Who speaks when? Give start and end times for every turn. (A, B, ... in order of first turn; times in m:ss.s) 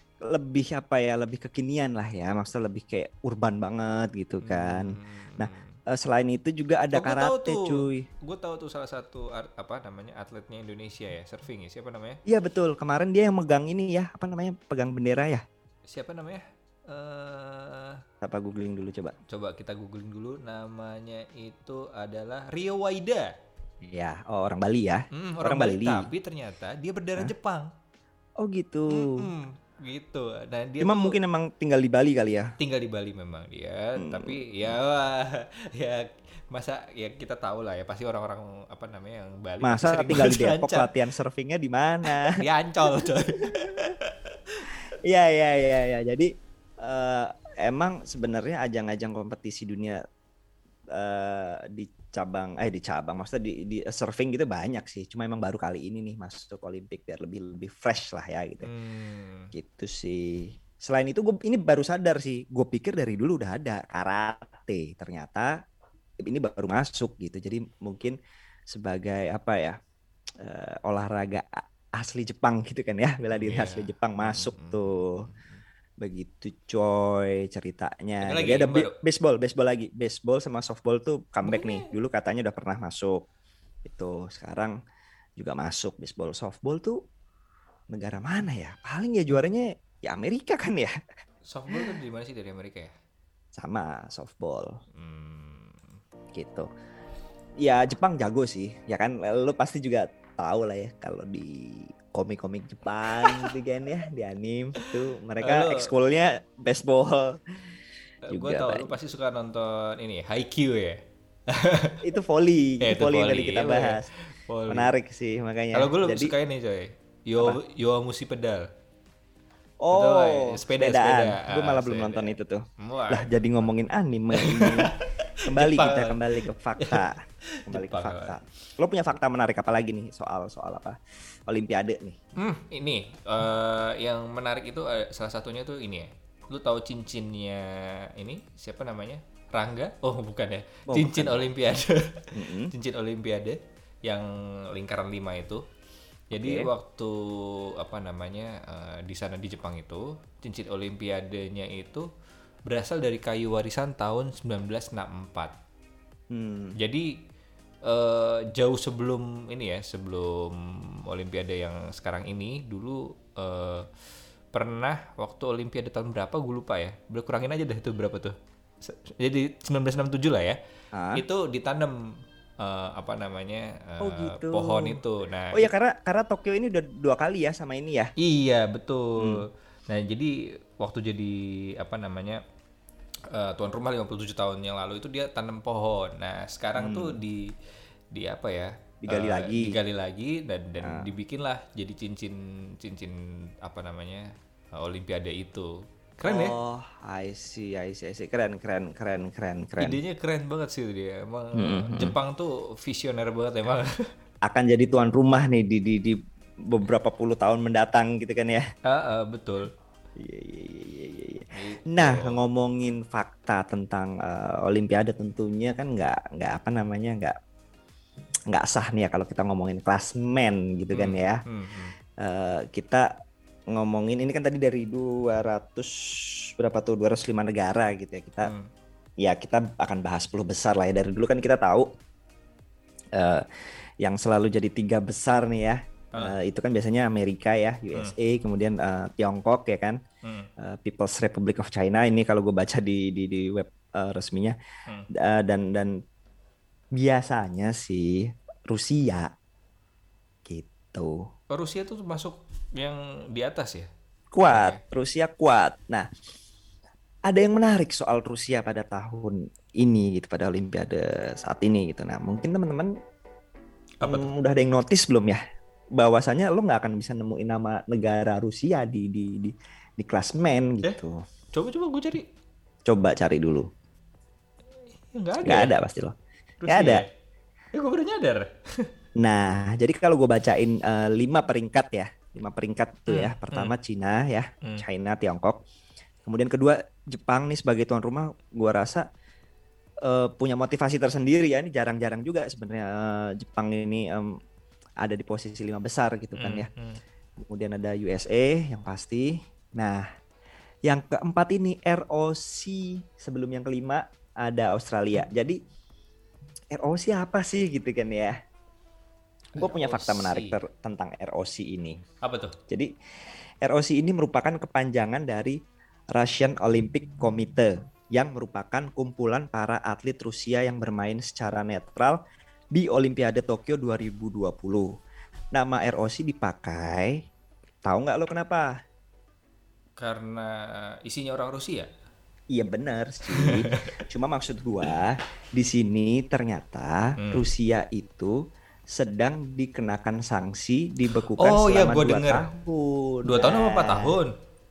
0:00.2-0:08.1 A
0:04.4-0:05.8 B
0:06.9-0:12.2 B
0:12.3-0:15.4 A
0:15.9-0:18.0 B
0:18.2-0:19.1 A
0:19.3-0:23.3 B
0:23.8-0:26.1 A
0:25.1-0:27.7 B
0:28.4-0:29.3 A
0:28.9-0:31.2 B
0:30.8-0:32.5 A
0:32.6-0:40.9 B
0:34.0-0:34.7 A
0:39.6-0:43.9 A
0:42.0-0:44.7 B
0:45.0-0:46.3 A
0:46.8-0:50.0 A
0:50.9-0:58.7 A
0:58.6-0:59.5 B
0:59.5-1:05.5 A
1:06.2-1:08.2 A
1:08.7-1:09.8 A
1:10.4-1:15.2 A
1:13.4-1:15.6 B
1:16.0-1:23.2 A
1:18.2-1:19.0 B
1:21.4-1:21.9 B
1:23.8-1:24.7 A
1:25.4-1:27.0 A
1:27.9-1:30.9 A
1:31.5-1:32.9 B
1:33.5-1:34.7 A
1:35.0-1:35.8 B
1:36.3-1:36.7 A
1:37.6-1:47.4 A
1:43.1-1:43.5 B
1:44.8-1:45.9 B
1:48.3-1:52.0 B
1:48.3-1:48.9 A
1:52.0-1:54.1 A
1:52.8-1:54.9 B
1:54.7-1:56.3 A
1:55.7-1:58.7 B
1:59.8-2:04.9 A
1:59.9-2:03.7 B
2:04.3-2:08.4 B
2:05.4-2:11.0 A
2:11.5-2:12.2 A
2:12.4-2:25.6 B
2:20.9-2:21.4 A
2:22.3-2:22.7 A
2:26.3-2:32.1 B
2:26.3-2:26.7 A
2:32.7-2:35.5 B
2:36.3-2:36.7 A
2:36.8-2:37.1 B
2:37.8-2:43.9 B
2:44.5-2:50.6 B
2:50.9-2:51.2 A
2:51.1-2:52.0 B
2:52.6-2:55.7 B
2:54.0-2:55.0 A
2:55.5-2:58.1 A
2:58.2-3:02.4 B
3:03.3-3:07.5 B
3:06.8-3:07.2 A
3:08.1-3:16.6 B
3:09.0-3:09.7 A
3:10.8-3:11.1 A
3:16.3-3:20.0 A
3:19.8-3:23.9 B
3:21.6-3:22.2 A
3:24.5-3:28.6 A
3:28.8-3:29.7 B
3:30.2-3:37.3 A
3:31.5-3:32.4 B
3:38.5-3:41.4 A
3:40.9-3:42.0 B
3:42.2-3:43.1 A
3:43.7-3:48.5 A
3:48.4-3:48.7 B
3:49.2-3:51.9 A
3:53.2-3:53.4 A
3:54.0-4:00.0 A
4:00.6-4:04.6 A
4:05.1-4:05.9 A
4:07.0-4:09.3 A
4:10.4-4:11.2 A
4:11.5-4:13.9 B
4:14.3-4:16.1 A
4:14.4-4:14.8 B
4:17.3-4:22.9 A
4:24.0-4:24.3 B
4:24.0-4:25.4 A
4:26.0-4:31.2 A
4:31.5-4:32.2 B
4:32.9-4:33.6 A
4:35.0-4:35.7 B
4:35.4-4:36.1 A
4:36.6-4:37.1 B
4:36.7-4:37.0 A
4:37.7-4:38.9 B
4:39.2-4:45.6 A
4:43.1-4:43.7 B
4:46.2-4:49.0 A
4:50.0-4:54.3 A
4:55.0-4:56.7 A
4:56.4-4:57.0 B
4:57.4-5:00.0 A
5:00.9-5:05.6 A
5:06.7-5:08.3 A
5:09.6-5:10.6 B
5:09.6-5:12.0 A
5:12.2-5:12.6 B
5:13.6-5:15.6 A
5:16.1-5:22.2 A
5:22.7-5:24.9 A
5:25.5-5:27.2 A
5:27.8-5:28.7 A
5:30.0-5:31.9 B
5:32.5-5:38.3 A
5:33.3-5:33.9 B
5:37.2-5:37.4 B
5:38.9-5:44.2 A
5:41.1-5:42.4 B
5:43.2-5:44.3 B